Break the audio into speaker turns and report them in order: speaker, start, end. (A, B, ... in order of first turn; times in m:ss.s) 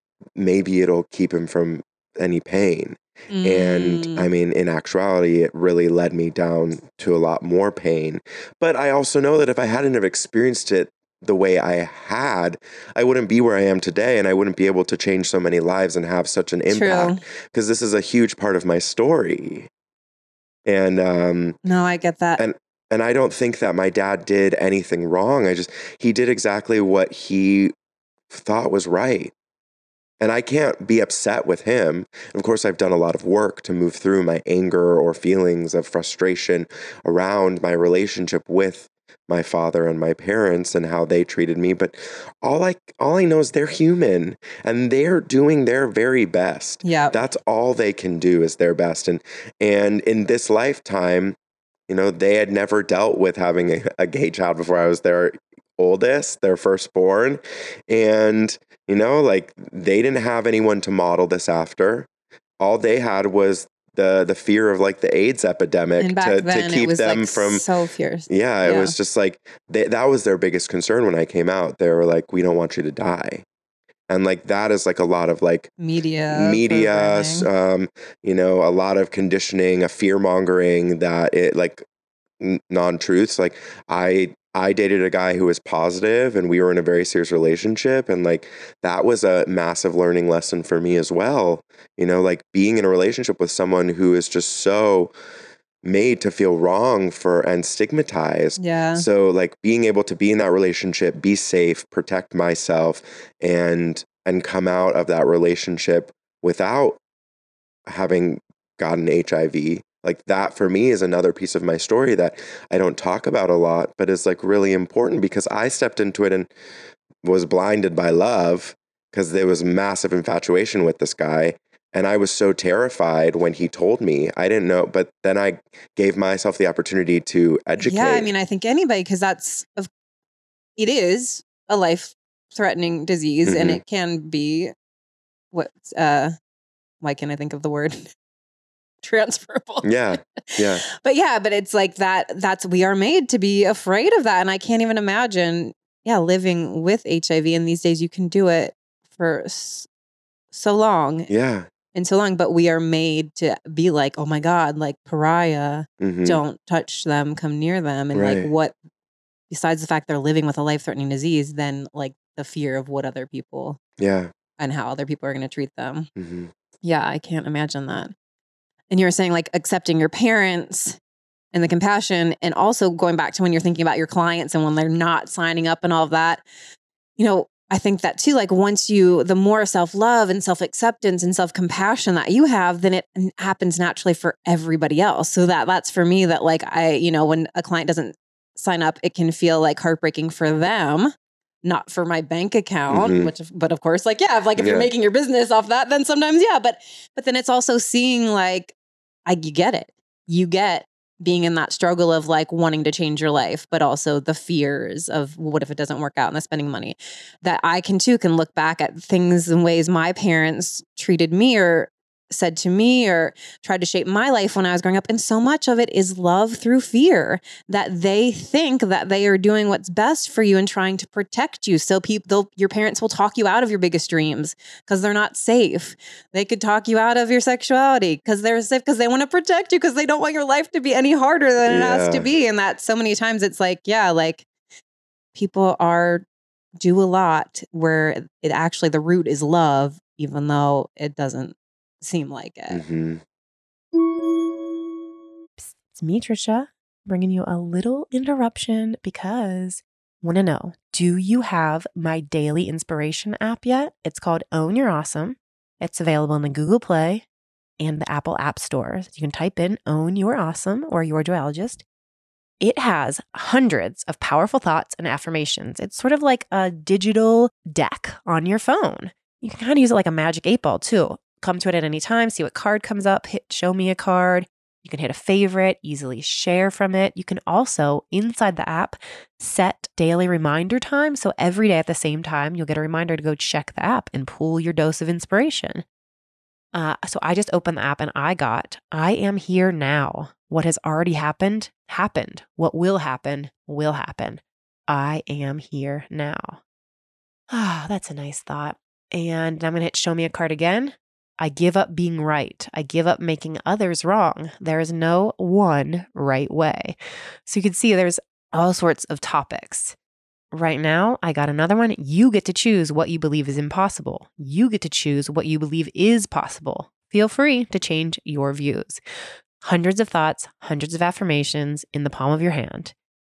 0:00.4-0:19.7 A
0:03.3-0:04.3 B
0:16.7-0:17.2 B
0:20.7-0:21.6 A
0:21.6-0:22.4 B
0:22.4-0:27.7 A
0:28.3-0:29.3 A
0:30.2-0:51.4 A
0:46.8-0:47.2 B
0:51.9-1:02.1 A
1:02.6-1:07.6 A
1:06.0-1:09.0 B
1:08.3-1:13.4 A
1:14.1-1:15.7 A
1:15.8-1:17.5 B
1:16.3-1:21.8 A
1:22.4-1:35.1 A
1:35.8-1:47.0 A
1:38.6-1:39.0 B
1:47.9-1:56.5 A
1:57.2-2:08.3 A
2:07.8-2:09.9 B
2:10.8-2:14.7 B
2:13.4-2:13.8 A
2:15.5-2:16.3 B
2:17.0-2:18.0 B
2:19.0-2:29.9 B
2:19.8-2:20.8 A
2:30.5-2:31.3 B
2:31.3-2:31.7 A
2:31.9-2:38.7 B
2:36.0-2:36.4 A
2:38.1-2:38.5 A
2:39.5-2:43.8 B
2:44.0-2:44.3 A
2:44.6-2:46.1 B
2:46.2-2:46.5 A
2:46.8-2:48.1 B
2:48.9-2:51.0 B
2:51.5-2:56.4 B
2:57.2-3:11.1 B
3:11.6-3:18.8 B
3:12.9-3:13.3 A
3:14.6-3:14.9 A
3:19.3-3:54.5 B
3:51.6-3:52.3 A
3:55.4-3:56.2 B
3:56.8-4:02.8 B
4:02.7-4:03.2 A
4:05.6-4:17.3 C
4:17.8-4:21.8 C
4:22.6-4:45.8 C
4:46.7-4:56.6 C
4:57.5-5:10.0 C
5:10.5-5:19.0 C
5:19.6-5:22.9 C